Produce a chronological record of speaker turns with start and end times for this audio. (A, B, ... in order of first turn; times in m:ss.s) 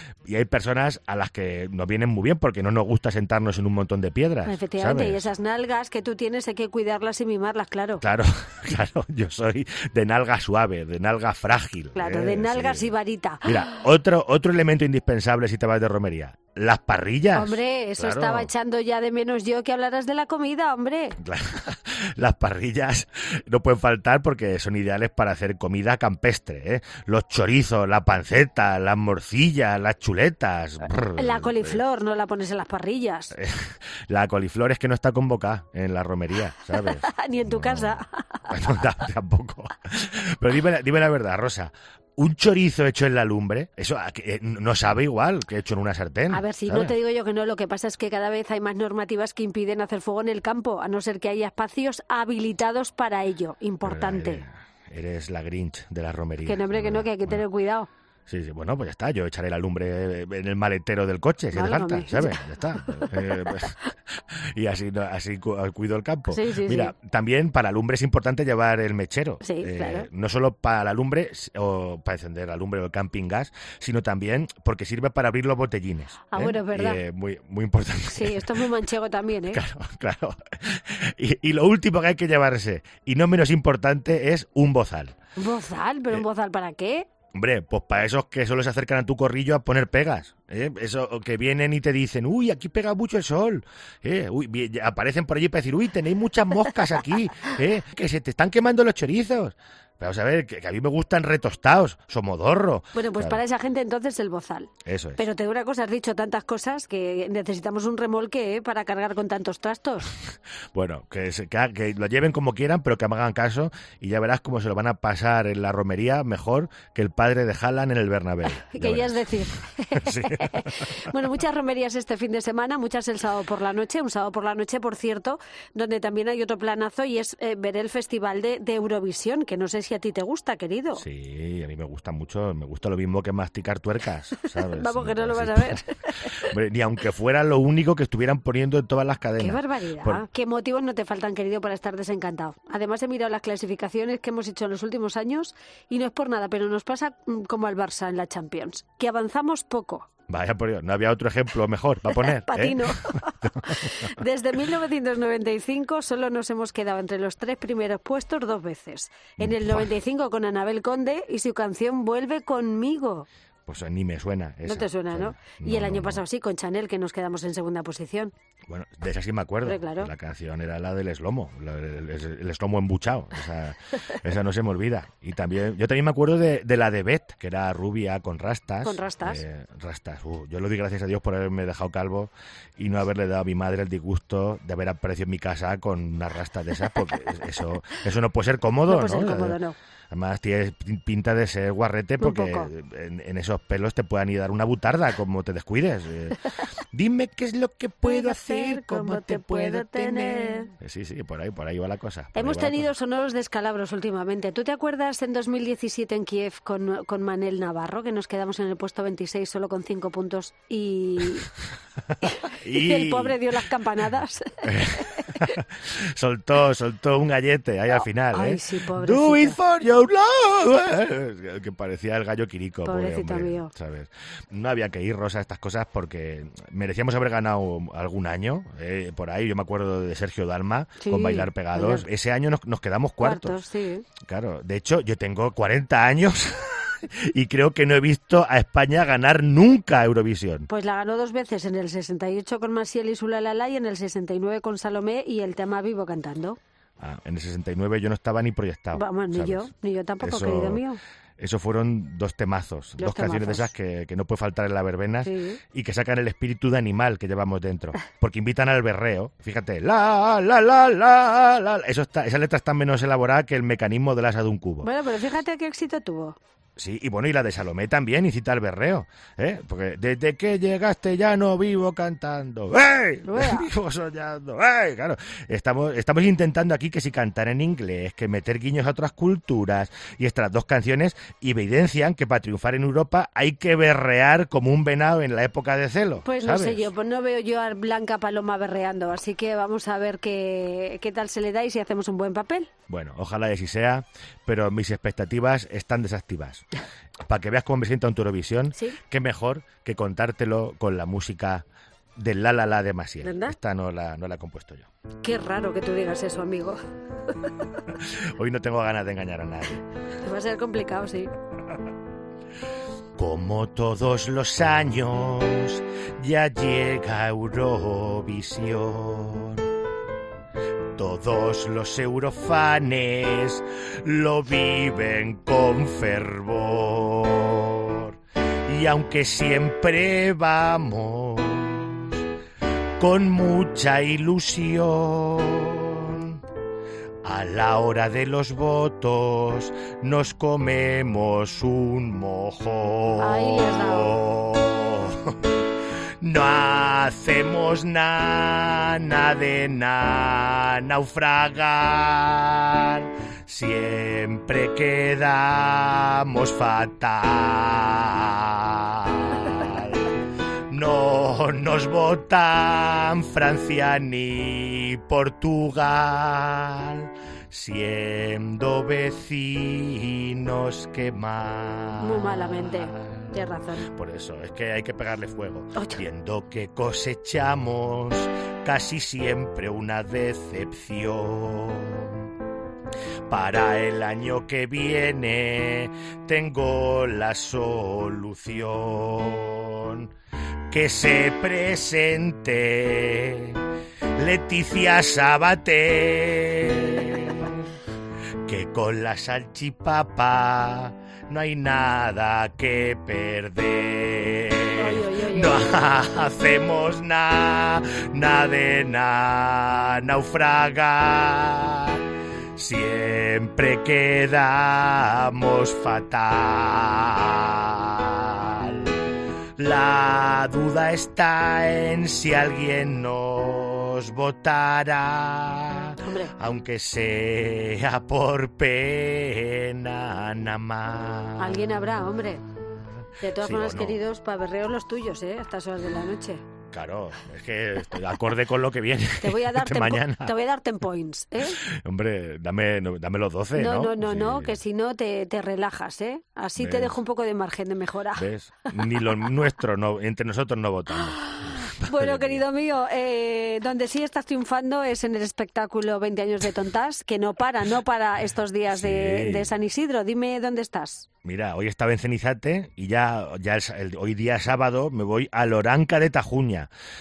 0:00.3-0:05.3 A
0:04.4-0:08.0 B
0:08.0-0:12.9 A
0:12.0-0:13.8 B
0:13.4-0:18.5 A
0:17.4-0:21.2 B
0:21.2-0:31.8 A
0:31.1-0:33.3 B
0:33.3-0:46.9 A
0:36.8-0:38.5 B
0:46.3-0:54.4 B
0:53.8-0:57.4 A
0:56.4-0:57.9 B
0:58.3-1:03.8 A
1:01.5-1:03.3 B
1:04.6-1:18.7 A
1:06.3-1:06.9 B
1:09.4-1:10.1 B
1:16.3-1:17.0 B
1:18.1-1:19.6 B
1:19.5-1:25.1 A
1:25.4-1:27.1 B
1:27.3-1:43.4 A
1:42.9-1:50.1 B
1:44.8-1:45.2 A
1:50.7-2:01.1 A
1:58.5-2:11.0 B
2:11.0-2:15.8 A
2:14.7-2:16.5 B
2:16.4-2:20.2 A
2:19.4-2:30.1 B
2:30.3-2:34.0 A
2:32.1-2:43.3 B
2:39.4-2:39.9 A
2:43.7-2:46.2 A
2:44.6-2:48.3 B
2:48.7-3:09.6 A
2:49.6-2:50.1 B
2:58.8-2:59.4 B
3:08.9-3:09.8 B
3:10.1-3:16.4 A
3:12.2-3:12.7 B
3:16.9-3:22.9 A
3:18.0-3:20.7 B
3:22.4-3:31.5 B
3:32.2-3:35.4 B
3:32.6-3:33.4 A
3:34.6-3:53.6 A
3:38.0-3:39.6 B
3:42.8-3:43.7 B
3:51.0-3:52.0 B
3:53.2-3:54.1 B
3:54.2-4:00.7 A
4:00.7-4:06.6 B
4:07.0-4:09.7 A
4:08.9-4:11.0 B
4:10.2-4:10.8 A
4:11.4-4:24.9 A
4:13.0-4:13.7 B
4:15.2-4:15.6 B
4:24.8-4:26.4 B
4:26.8-4:46.9 A
4:33.2-4:33.7 B
4:46.2-4:52.7 B
4:52.9-4:56.7 A
4:57.3-5:01.6 A
5:02.2-5:04.9 A
5:03.2-5:03.6 B
5:05.2-5:06.8 B
5:08.0-5:09.8 A
5:10.2-5:11.3 B
5:13.2-5:19.7 A
5:21.0-5:32.2 A
5:33.0-5:36.4 A
5:37.2-5:45.6 A
5:43.2-5:44.2 B
5:46.2-6:00.1 A
6:00.7-6:22.3 A
6:12.0-6:13.9 B
6:15.8-6:16.0 B
6:23.3-6:30.1 A
6:30.7-6:33.6 A
6:34.2-6:37.6 A
6:38.4-6:52.0 A
6:44.7-6:45.7 B
6:52.6-6:59.0 A
6:59.6-7:11.7 A
7:06.0-7:06.3 B
7:11.4-7:12.4 B
7:13.2-7:16.4 B
7:13.3-7:14.0 A
7:16.7-7:20.3 A
7:19.2-7:21.6 B
7:21.6-7:24.6 A
7:23.6-7:28.2 B
7:26.6-7:27.0 A
7:28.2-7:32.4 A
7:31.1-7:41.1 B
7:38.7-7:39.5 A
7:41.2-7:46.7 A